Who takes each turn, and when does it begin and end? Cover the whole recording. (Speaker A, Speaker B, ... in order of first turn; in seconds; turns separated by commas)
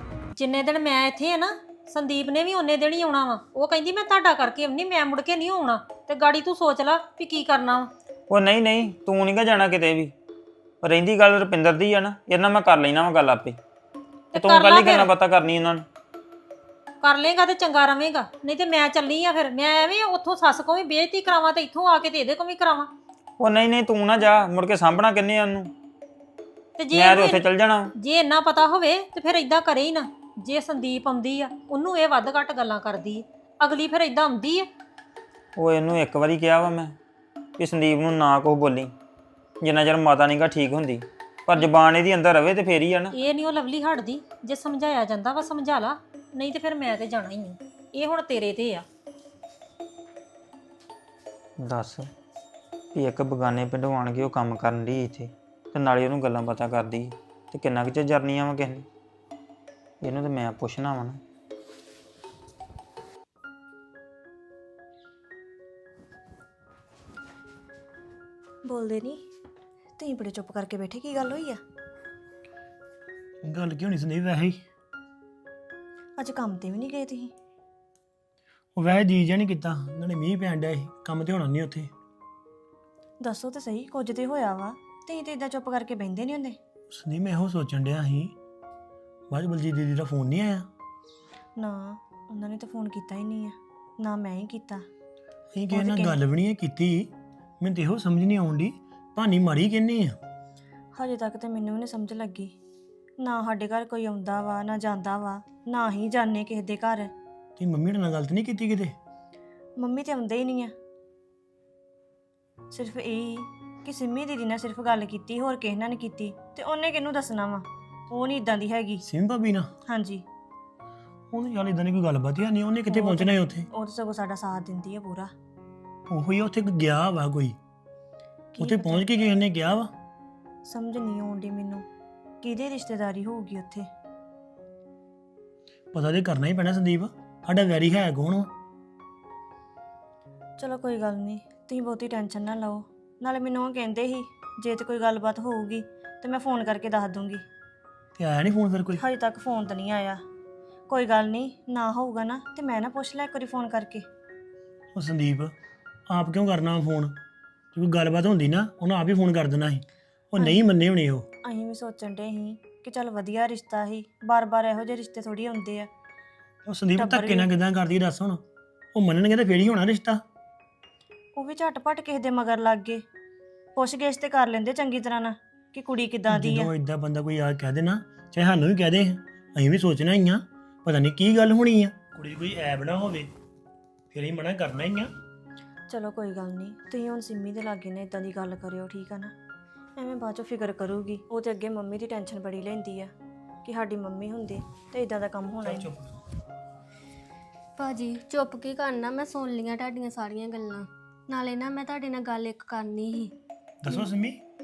Speaker A: 0.3-7.9, Speaker B: 8.3-10.1, Speaker B: 10.8-13.6, Speaker A: 14.3-15.1, Speaker B: 14.4-15.8, Speaker A: 17.0-22.9, Speaker B: 23.4-25.7, Speaker A: 26.8-27.4, Speaker B: 26.9-27.9, Speaker A: 28.0-34.7, Speaker B: 35.6-37.0, Speaker B: 37.6-38.9, Speaker B: 39.6-43.1, Speaker A: 43.1-48.9, Speaker B: 51.6-52.1, Speaker B: 52.9-58.9, Speaker B: 60.0-61.2, Speaker C: 68.6-69.3, Speaker C: 70.0-71.6, Speaker D: 73.4-74.6, Speaker C: 76.2-77.3, Speaker D: 78.8-81.9, Speaker C: 83.2-86.6, Speaker D: 86.9-88.3, Speaker D: 89.3-90.7, Speaker C: 91.6-94.9, Speaker D: 95.5-97.1, Speaker C: 95.7-96.2, Speaker D: 97.6-100.2, Speaker C: 101.0-102.5, Speaker C: 103.2-107.1, Speaker D: 107.6-109.0, Speaker C: 109.8-110.7, Speaker C: 112.7-119.0, Speaker D: 119.0-119.7, Speaker C: 119.9-120.2, Speaker D: 121.3-123.7, Speaker C: 122.9-125.3, Speaker D: 126.1-127.6, Speaker C: 128.5-129.1, Speaker D: 128.6-129.9, Speaker C: 130.6-131.9, Speaker C: 132.4-133.9, Speaker D: 135.9-138.5, Speaker C: 140.6-147.4, Speaker D: 148.2-149.0, Speaker C: 149.0-150.2, Speaker C: 150.9-154.1, Speaker D: 154.9-155.5, Speaker D: 156.1-157.2, Speaker D: 157.7-161.3, Speaker C: 161.4-165.9, Speaker D: 166.7-168.4, Speaker C: 167.0-167.5, Speaker D: 168.9-170.2, Speaker C: 171.4-173.0, Speaker C: 173.7-176.7, Speaker D: 176.3-183.3, Speaker D: 184.1-185.1, Speaker C: 185.9-189.3, Speaker C: 190.0-193.1, Speaker C: 193.6-195.9, Speaker D: 195.6-196.1, Speaker E: 197.8-203.3, Speaker D: 203.8-204.4